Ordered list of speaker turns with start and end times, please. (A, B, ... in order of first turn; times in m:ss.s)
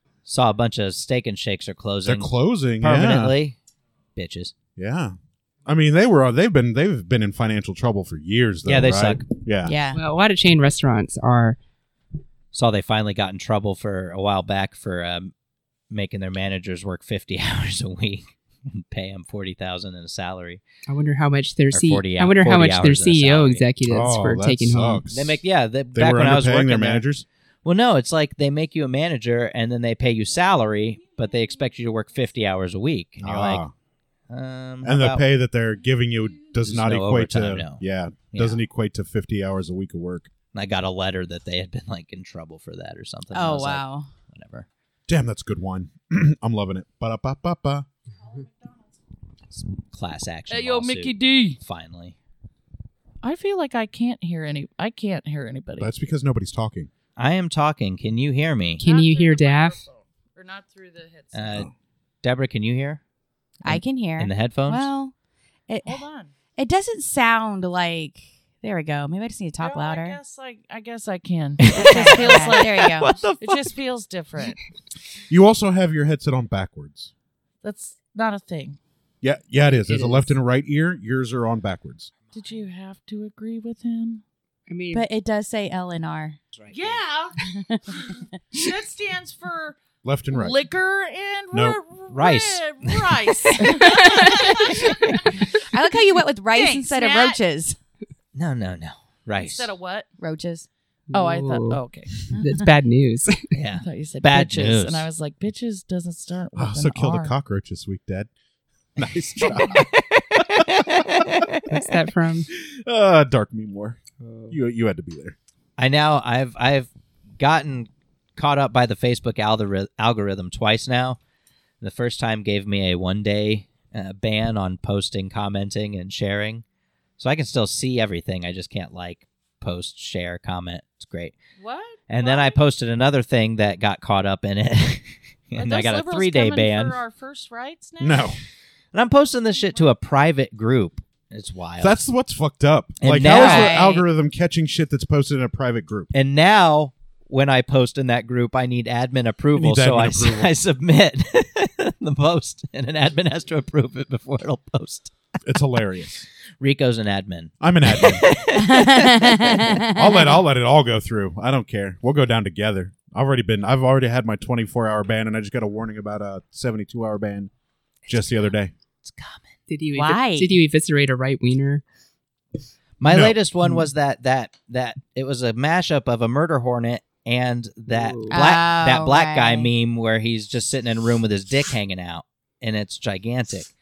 0:00.2-0:03.6 A
0:02.0-0:03.4 B
0:04.2-0:04.5 A
0:04.8-0:05.2 B
0:05.7-0:09.7 B
0:08.7-0:09.3 A
0:09.6-0:10.0 C
0:09.9-0:11.6 D
0:12.5-0:15.3 A
0:15.9-0:20.6 A
0:20.9-0:25.0 D
0:21.7-0:23.7 A
0:23.9-0:25.4 B
0:25.1-0:27.1 A
0:25.9-0:27.3 B
0:27.6-0:33.6 A
0:33.2-0:33.7 B
0:34.3-0:35.3 A
0:34.8-0:40.3 B
0:36.6-0:38.6 A
0:40.5-0:44.7 A
0:43.3-0:44.1 C
0:45.1-0:47.9 B
0:49.9-0:52.2 A
0:50.5-0:51.6 E
0:53.2-0:55.9 E
0:55.8-0:56.9 B
0:57.2-0:58.9 A
0:58.8-1:01.7 E
0:58.8-0:59.8 D
1:01.3-1:01.7 A
1:02.2-1:03.0 A
1:03.6-1:05.1 C
1:03.6-1:04.9 A
1:05.7-1:06.0 C
1:05.8-1:06.3 E
1:06.6-1:10.2 C
1:09.6-1:14.6 E
1:11.6-1:13.7 A
1:11.7-1:13.1 C
1:15.3-1:17.1 B
1:17.6-1:18.8 E
1:19.2-1:22.1 B
1:19.7-1:20.3 D
1:22.2-1:22.6 A
1:22.3-1:24.2 E
1:24.7-1:25.1 D
1:24.9-1:26.4 C
1:26.5-1:27.0 A
1:26.7-1:27.4 E
1:27.5-1:28.0 C
1:27.9-1:29.8 E
1:30.0-1:30.6 B
1:30.3-1:35.5 E
1:31.5-1:31.8 B
1:32.1-1:33.1 A
1:33.8-1:34.1 D
1:35.6-1:37.8 C
1:36.5-1:37.4 E
1:38.4-1:39.7 A
1:39.4-1:40.1 E
1:40.2-1:40.7 C
1:41.1-1:43.5 D
1:41.1-1:42.3 E
1:42.3-1:42.7 C
1:43.6-1:45.1 A
1:43.8-1:47.4 E
1:46.5-1:48.3 B
1:49.0-1:49.9 B
1:49.5-1:51.7 A
1:51.7-1:52.5 D
1:52.5-1:54.0 B
1:54.2-1:54.6 D
1:54.5-1:55.4 B
1:55.8-2:01.2 A
2:01.8-2:06.6 A
2:07.2-2:11.4 A
2:11.6-2:12.6 E
2:12.1-2:17.0 A
2:15.6-2:18.4 E
2:18.0-2:18.4 B
2:18.9-2:22.0 A
2:19.5-2:19.9 E
2:21.8-2:26.1 B
2:23.0-2:23.8 A
2:23.3-2:24.1 C
2:26.1-2:35.1 A
2:29.6-2:30.6 B
2:35.5-2:36.3 B
2:36.6-2:39.8 A
2:37.6-2:38.3 B
2:38.6-2:40.3 C
2:39.8-2:47.5 B
2:48.0-2:48.5 A
2:48.1-2:48.7 B
2:49.0-2:49.5 A
2:49.7-2:51.8 D
2:49.9-2:50.6 C
2:53.0-3:03.7 A
2:53.1-2:53.4 B
2:57.9-2:58.4 D
2:58.3-2:59.7 C